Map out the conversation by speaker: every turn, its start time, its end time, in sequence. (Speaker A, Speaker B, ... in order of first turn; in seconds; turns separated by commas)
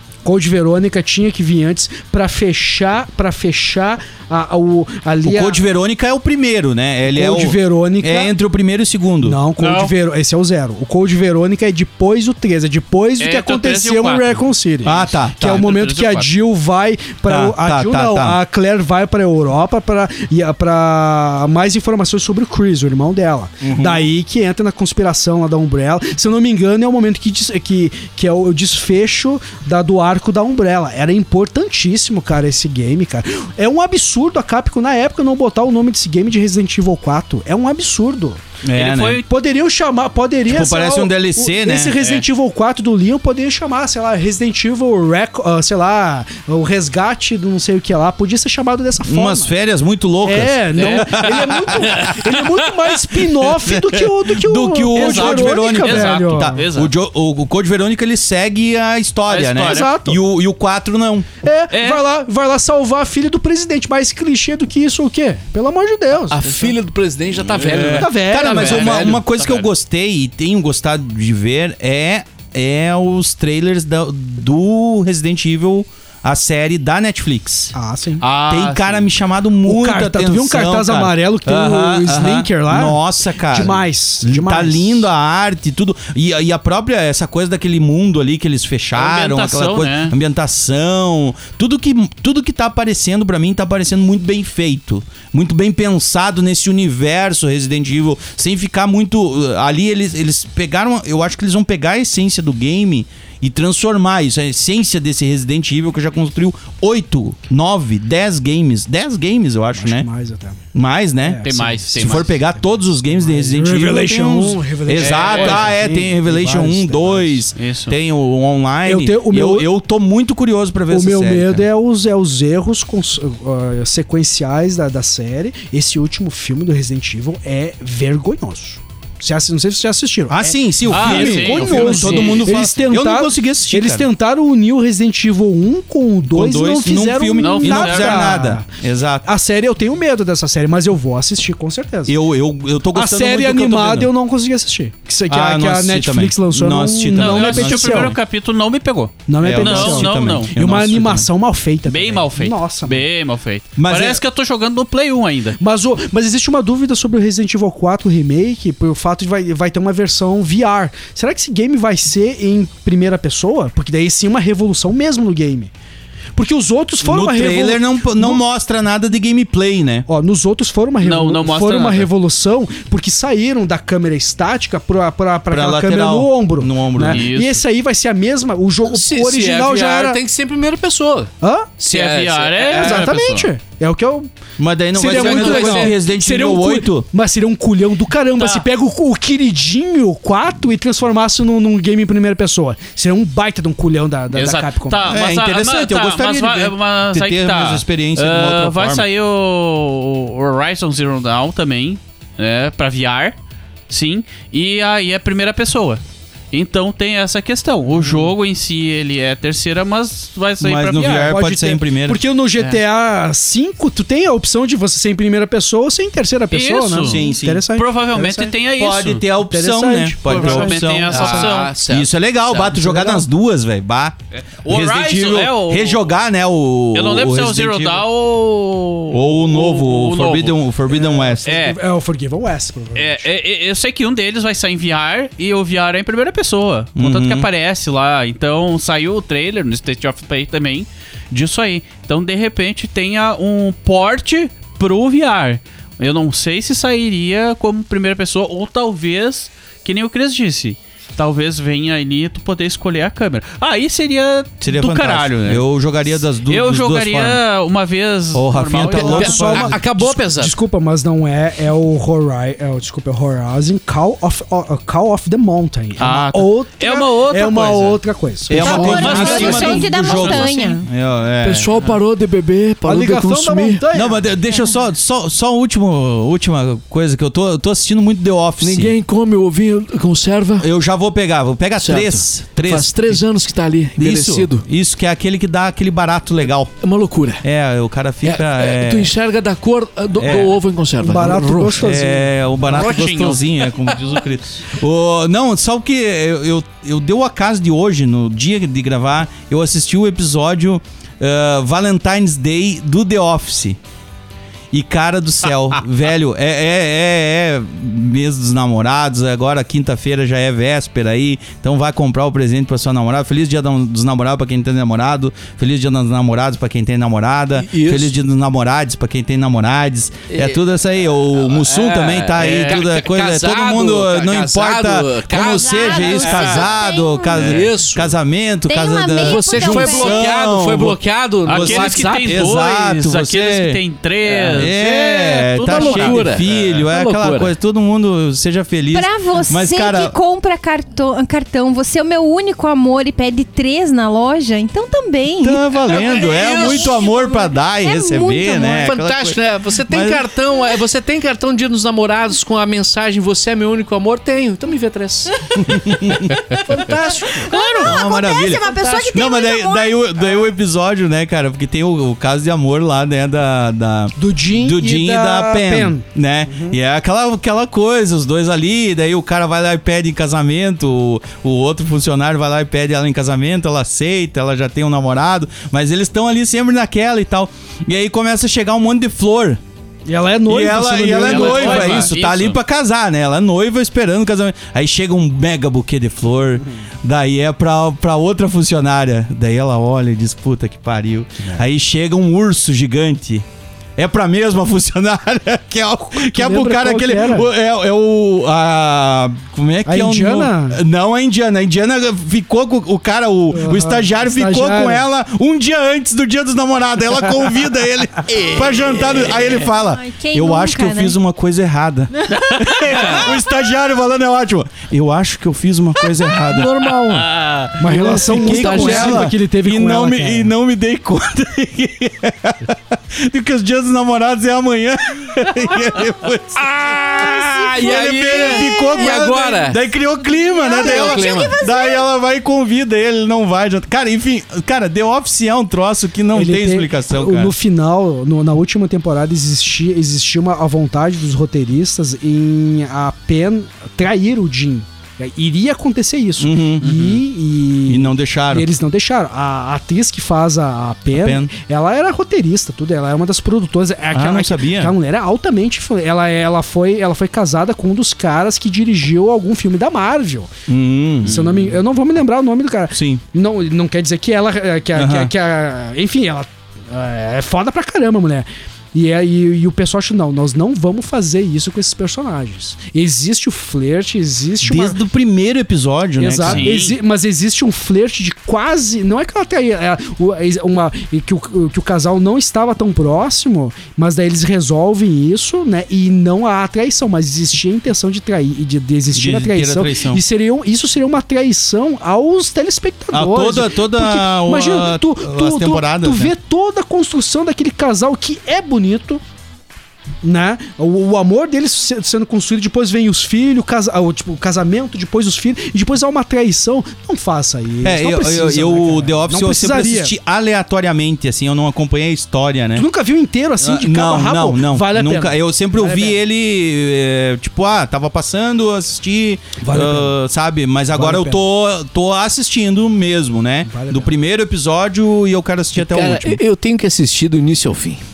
Speaker A: 0.2-5.6, Speaker B: 5.2-9.4, Speaker A: 7.1-8.3, Speaker A: 9.2-38.4, Speaker C: 9.6-9.9, Speaker C: 13.2-16.3, Speaker B: 14.8-15.7, Speaker B: 17.2-18.4, Speaker B: 23.6-24.1, Speaker B: 38.6-39.2, Speaker C: 38.7-39.2, Speaker A: 39.2-49.5, Speaker B: 40.5-42.0, Speaker C: 42.0-42.2, Speaker B: 49.0-52.1, Speaker A: 50.2-56.6, Speaker C: 50.7-52.3, Speaker B: 53.5-61.3, Speaker C: 54.9-56.9, Speaker C: 59.3-59.9, Speaker A: 59.6-60.2, Speaker A: 61.4-66.5, Speaker C: 61.7-62.0, Speaker D: 66.3-69.2, Speaker C: 67.5-69.7, Speaker B: 67.5-77.7, Speaker A: 67.9-69.1, Speaker A: 77.7-78.3, Speaker C: 78.2-79.1, Speaker B: 78.5-110.1, Speaker A: 79.6-85.1, Speaker C: 88.9-90.1, Speaker A: 109.8-110.6, Speaker B: 110.7-121.7, Speaker A: 111.2-117.5, Speaker C: 111.4-112.3, Speaker C: 114.9-115.7, Speaker C: 117.5-118.0, Speaker A: 118.8-119.7, Speaker A: 120.9-138.6, Speaker B: 130.3-134.1, Speaker C: 130.9-132.6, Speaker B: 136.3-139.3, Speaker C: 137.4-138.4, Speaker A: 139.2-142.2, Speaker B: 142.1-144.1, Speaker A: 142.9-148.2, Speaker B: 145.3-148.2, Speaker C: 147.1-150.5, Speaker A: 149.3-153.1, Speaker B: 149.4-151.3, Speaker C: 151.8-155.6, Speaker B: 153.8-154.2, Speaker A: 155.6-165.7, Speaker A: 166.3-168.4, Speaker B: 167.0-170.1, Speaker A: 170.1-180.2, Speaker C: 171.0-172.1, Speaker B: 175.5-177.2, Speaker C: 177.0-177.6, Speaker D: 178.9-183.1, Speaker A: 181.4-181.8, Speaker C: 181.9-183.5, Speaker A: 182.7-184.3, Speaker B: 184.6-187.1, Speaker A: 184.9-195.0, Speaker D: 185.0-185.9, Speaker C: 188.3-188.7, Speaker C: 194.3-203.3, Speaker B: 195.0-199.1, Speaker C: 203.9-211.4, Speaker B: 210.6-212.2, Speaker A: 211.0-218.6, Speaker C: 216.5-219.2, Speaker B: 217.0-217.6, Speaker B: 218.8-228.1, Speaker A: 219.4-220.9, Speaker C: 220.2-221.8, Speaker D: 221.0-222.9, Speaker A: 222.8-223.2, Speaker C: 224.3-226.0, Speaker C: 226.9-230.6, Speaker B: 229.1-231.5, Speaker A: 230.9-233.3, Speaker C: 231.4-231.8, Speaker C: 232.9-255.7, Speaker B: 236.9-237.5, Speaker B: 254.6-257.4, Speaker C: 256.2-259.7, Speaker B: 258.3-260.1, Speaker A: 258.8-269.9, Speaker D: 259.1-260.5, Speaker C: 266.0-270.8, Speaker B: 268.5-271.7, Speaker D: 268.6-269.7, Speaker E: 268.6-270.8, Speaker D: 271.4-273.8, Speaker C: 271.7-272.0, Speaker A: 272.8-274.3, Speaker B: 273.9-278.9, Speaker D: 278.6-280.7, Speaker B: 280.6-283.2, Speaker D: 281.8-284.6, Speaker B: 283.9-286.7, Speaker D: 286.8-287.4, Speaker B: 287.4-289.1, Speaker D: 288.2-291.9, Speaker B: 290.1-290.6, Speaker A: 290.9-292.3, Speaker B: 291.8-303.8, Speaker C: 292.7-294.4, Speaker B: 304.7-333.8, Speaker D: 317.6-318.2, Speaker D: 320.3-320.6, Speaker D: 321.4-326.7, Speaker C: 322.4-322.8, Speaker E: 325.4-327.4, Speaker D: 327.3-328.1, Speaker E: 328.7-330.3, Speaker D: 329.2-332.5, Speaker C: 331.4-336.4, Speaker D: 334.4-334.6, Speaker B: 334.5-340.1, Speaker D: 335.6-337.5, Speaker E: 338.9-348.9, Speaker B: 345.4-350.2, Speaker D: 345.9-347.0, Speaker D: 348.7-357.8, Speaker B: 355.6-356.3, Speaker A: 356.7-357.6, Speaker E: 356.8-360.0, Speaker B: 357.8-379.6, Speaker D: 358.7-359.1, Speaker A: 364.2-366.8, Speaker A: 380.1-382.1, Speaker B: 380.5-393.4, Speaker C: 381.1-382.6, Speaker B: 394.0-416.9, Speaker A: 396.1-397.5, Speaker A: 399.9-400.8, Speaker A: 403.5-405.1, Speaker D: 408.3-409.4, Speaker E: 409.9-411.2, Speaker C: 412.4-412.9, Speaker D: 412.8-413.2, Speaker A: 416.5-417.3, Speaker C: 417.0-417.8, Speaker A: 417.8-420.5, Speaker B: 417.9-426.8, Speaker D: 417.9-419.4, Speaker D: 426.6-429.8, Speaker E: 427.1-429.4, Speaker B: 427.8-437.5, Speaker E: 430.2-432.1, Speaker D: 430.7-431.6, Speaker A: 436.3-460.5, Speaker B: 446.4-447.0, Speaker C: 446.8-447.2, Speaker B: 447.9-448.7, Speaker B: 451.1-451.5, Speaker B: 454.1-454.9, Speaker B: 460.7-461.6, Speaker A: 461.2-475.0, Speaker C: 461.2-461.6, Speaker B: 462.9-463.2, Speaker B: 464.9-465.3, Speaker B: 474.6-476.8, Speaker A: 476.2-499.2, Speaker C: 476.4-477.0, Speaker B: 489.1-490.2, Speaker B: 493.1-496.3, Speaker A: 500.2-510.1, Speaker B: 507.8-512.9, Speaker A: 512.7-516.2, Speaker B: 513.6-526.4, Speaker A: 519.6-520.1, Speaker A: 520.9-521.4, Speaker A: 523.6-524.1, Speaker D: 525.8-528.0